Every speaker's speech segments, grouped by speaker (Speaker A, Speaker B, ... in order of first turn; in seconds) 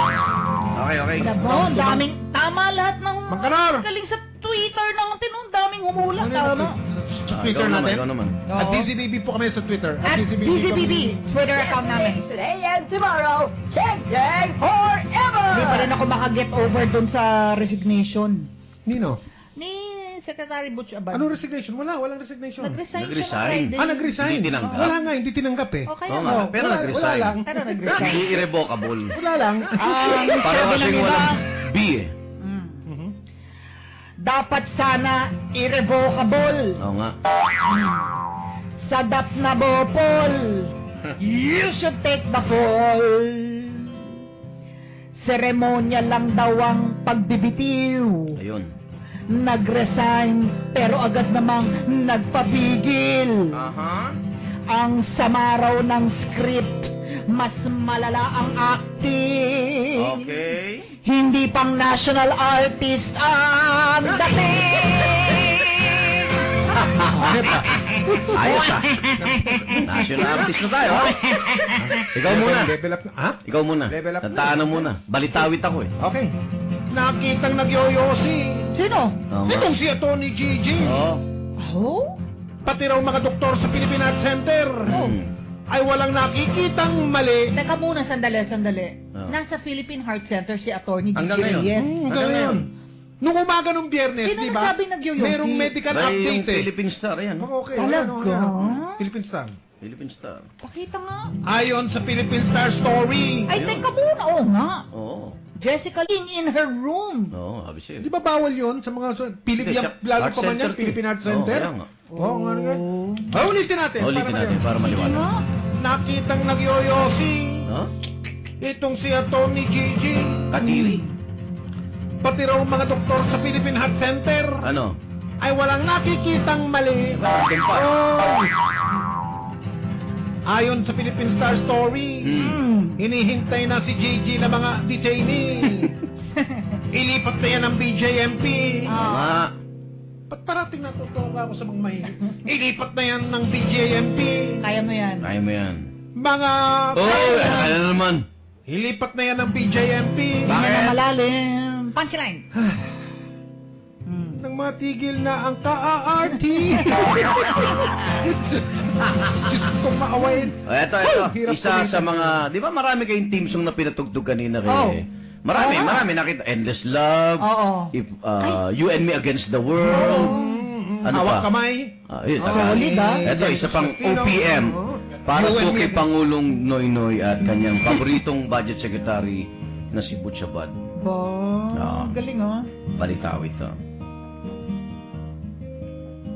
Speaker A: 0.7-1.4, 7.3-8.5, 23.0-25.0, 26.1-27.3, 27.9-29.1, 30.4-32.1, 36.8-37.1, 48.4-48.7, 53.5-54.2, 60.0-60.9, 66.9-67.2, 68.3-68.9, 69.9-71.2, 71.8-72.8, 73.5-75.9, 79.3-79.7, 80.8-81.2, 84.9-85.3, 91.2-92.6, 95.9-97.5, 99.8-100.4, 103.5-103.9, 104.9-105.4, 107.3-108.1, 109.6-111.9, 114.0-115.2, 120.5-121.0, 124.6-125.0, 127.1-127.9, 132.3-132.6, 139.1-139.5, 145.2-145.9, 147.0-148.3, 150.5-151.0, 160.7-170.3, 171.1-171.5, 172.1-180.8, 181.7-182.2, 183.0-183.8
Speaker B: 1.2-6.8, 8.5-8.9, 10.0-12.2, 15.5-18.5, 19.6-21.4, 22.6-25.0, 25.9-28.4, 29.7-31.4, 32.4-32.9, 34.2-36.7, 37.7-38.0, 38.8-44.0, 45.1-48.4, 49.3-53.6, 54.7-60.3, 61.0-66.3, 67.7-71.9, 78.7-79.2, 81.6-82.1, 84.9-85.2, 87.5-92.0, 94.2-95.8, 97.8-99.0, 100.6-101.3, 103.5-104.9, 105.6-107.3, 112.2-113.3, 114.9-115.4, 120.6-121.1, 132.4-133.0, 138.9-139.4, 144.6-145.3, 147.1-147.8, 150.5-152.4, 154.1-154.4, 156.8-157.8, 164.7-165.0, 165.5-166.1, 167.4-168.5, 169.9-170.6, 172.4-173.3, 181.0-182.7
Speaker C: 1.6-2.0, 3.3-3.9, 6.1-11.2, 18.9-19.2, 21.1-22.8, 23.7-28.4, 29.1-30.3, 32.9-33.1, 67.1-70.5, 72.2-74.9, 76.0-76.3, 76.9-78.7, 79.4-81.0, 82.6-85.0, 85.7-87.5, 91.8-96.7, 97.4-99.5, 101.5-103.5, 108.0-115.2, 115.8-117.7, 118.6-120.6, 122.2-124.7, 125.4-128.6, 130.5-132.3, 133.0-135.9, 136.9-139.1, 140.3-144.6, 146.2-147.8, 148.7-150.7, 152.6-152.9, 154.4-162.4, 169.9-176.1
Speaker D: 11.5-16.0